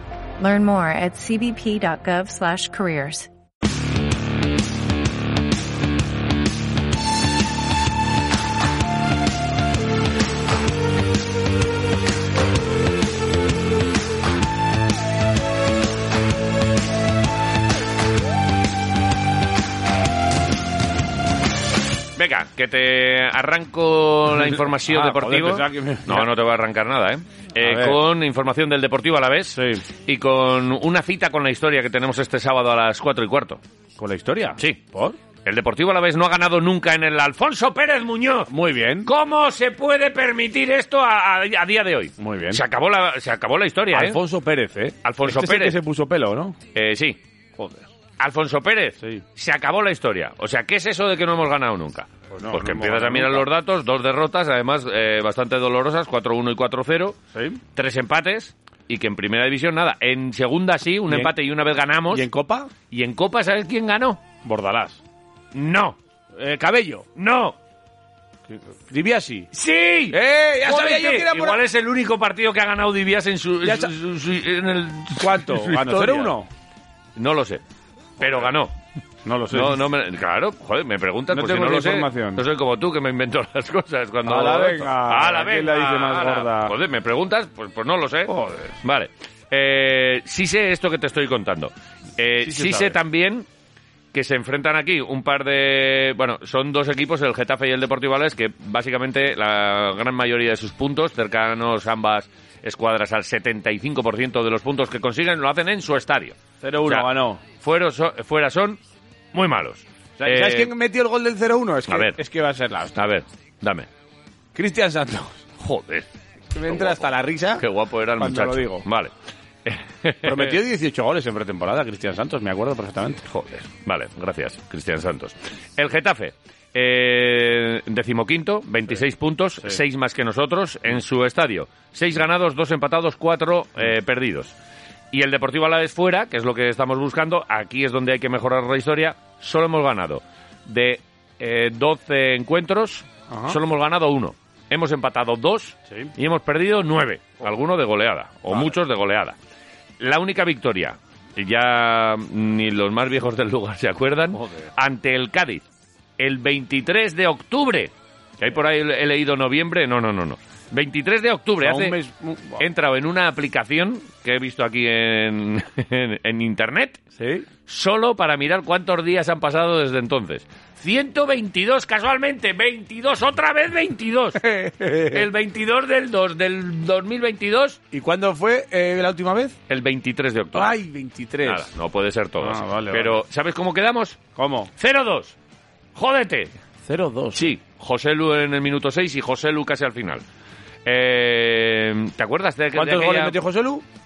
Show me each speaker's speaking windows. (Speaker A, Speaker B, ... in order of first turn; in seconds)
Speaker A: 0.4-3.3
Speaker B: 22.1-33.6, 34.6-34.8, 35.4-38.5, 39.0-44.2, 45.0-45.8, 46.7-47.2, 48.2-57.2, 57.7-62.3, 62.9-64.2, 65.5-66.0, 67.2-67.5, 69.5-76.3, 77.2-77.6, 78.2-78.7, 79.5-93.5, 94.1-108.8, 109.3-110.7, 111.9-112.2, 112.9-113.9, 115.6-116.1, 116.7-119.1, 119.6-120.5, 123.3-134.5, 135.1-149.3, 150.0-155.6, 156.2-162.0, 162.6-167.1, 167.7-174.4, 175.1-177.8, 179.7-180.7, 181.4-184.2, 184.8-185.3, 185.9-186.6, 187.3-190.2, 190.8-193.3
Speaker C: 24.4-26.3, 27.6-28.0, 29.5-29.8, 34.0-35.1, 38.5-39.1, 42.2-42.6, 43.9-46.5, 47.6-47.9, 52.3-53.4, 57.3-57.6, 62.1-62.7, 64.4-65.0, 66.3-67.0, 68.5-69.5, 70.1-71.6, 73.6-73.9, 75.2-76.5, 79.2-79.8, 81.3-82.4, 84.2-86.7, 88.3-88.7, 92.4-92.9, 106.6-107.4, 110.2-113.0, 114.5-115.4, 116.5-117.7, 118.2-118.8, 120.2-123.2, 143.3-143.6, 154.3-154.7, 161.6-162.6, 167.2-167.5, 174.3-175.2, 177.9-179.5, 180.5-181.7, 182.4-183.2, 184.3-184.7, 186.8-187.5, 192.7-193.8